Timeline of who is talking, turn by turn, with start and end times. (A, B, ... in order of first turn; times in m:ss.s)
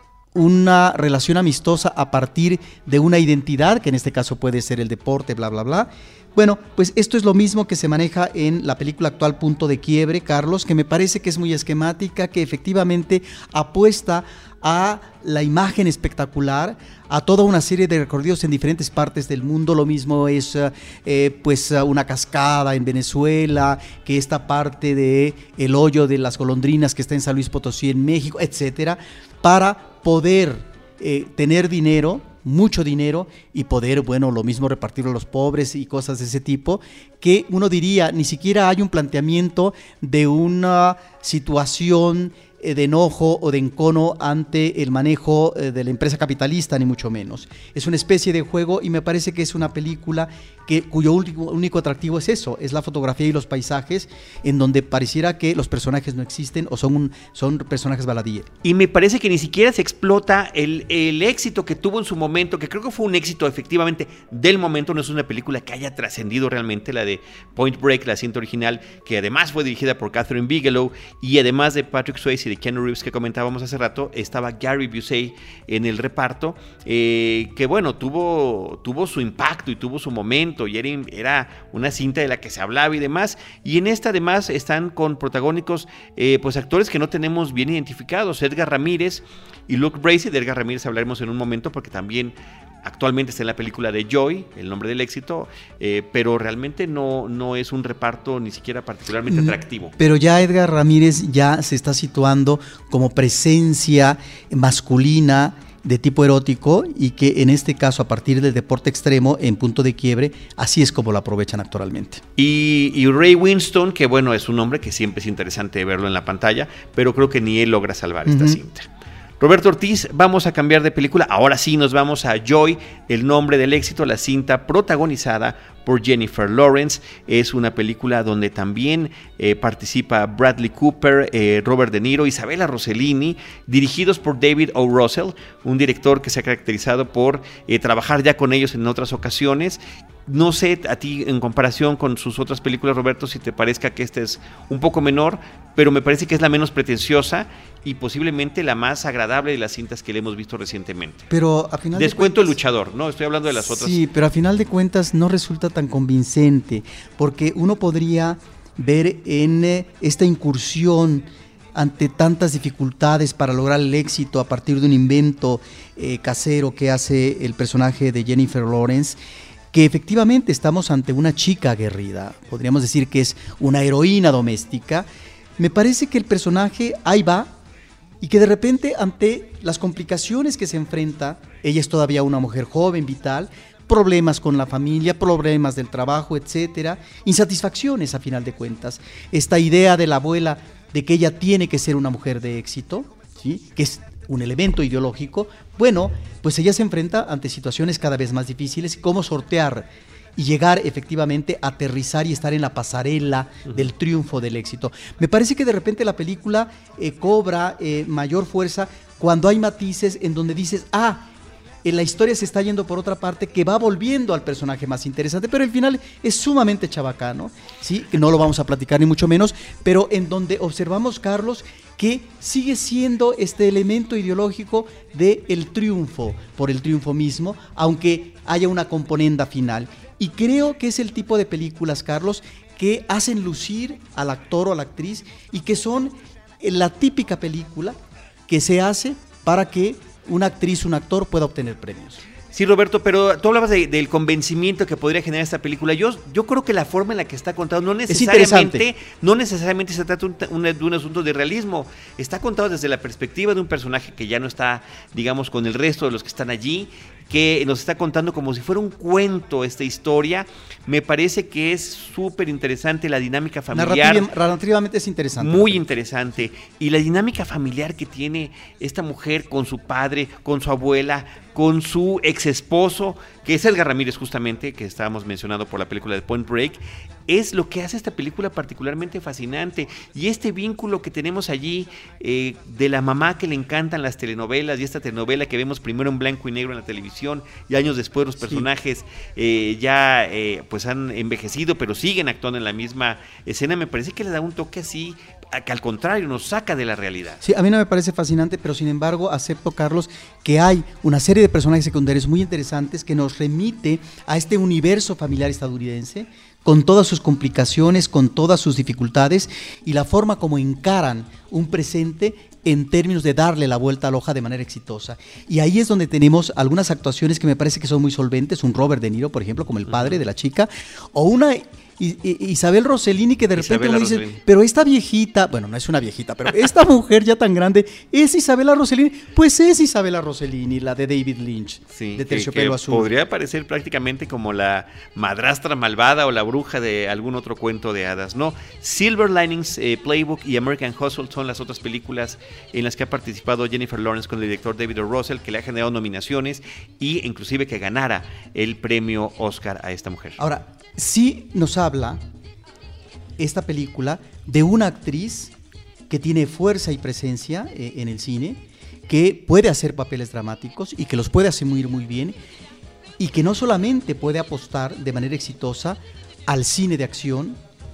0:00.3-0:58.5 A
0:58.6-1:39.9 B
1:39.3-1:52.2 A
1:52.4-1:58.9 B
1:58.2-1:58.6 A
1:59.4-2:31.3 B
2:31.3-2:32.6 A
2:31.9-2:34.0 B
2:33.6-2:49.2 A
2:49.7-2:55.1 A
2:55.6-2:57.5 A
2:58.2-3:31.3 A
3:31.8-3:58.0 A
3:58.5-4:02.2 A
4:02.5-4:24.3 B
4:08.1-4:08.9 A
4:23.7-4:25.9 A
4:25.4-4:57.4 B
4:48.4-4:48.6 A
4:57.4-5:33.1 A
5:19.9-5:20.2 B
5:23.6-5:24.4 B
5:31.9-5:50.4 B
5:50.4-5:52.2 A
5:53.4-5:55.5 A
5:56.1-6:02.4 A
6:03.2-6:07.6 A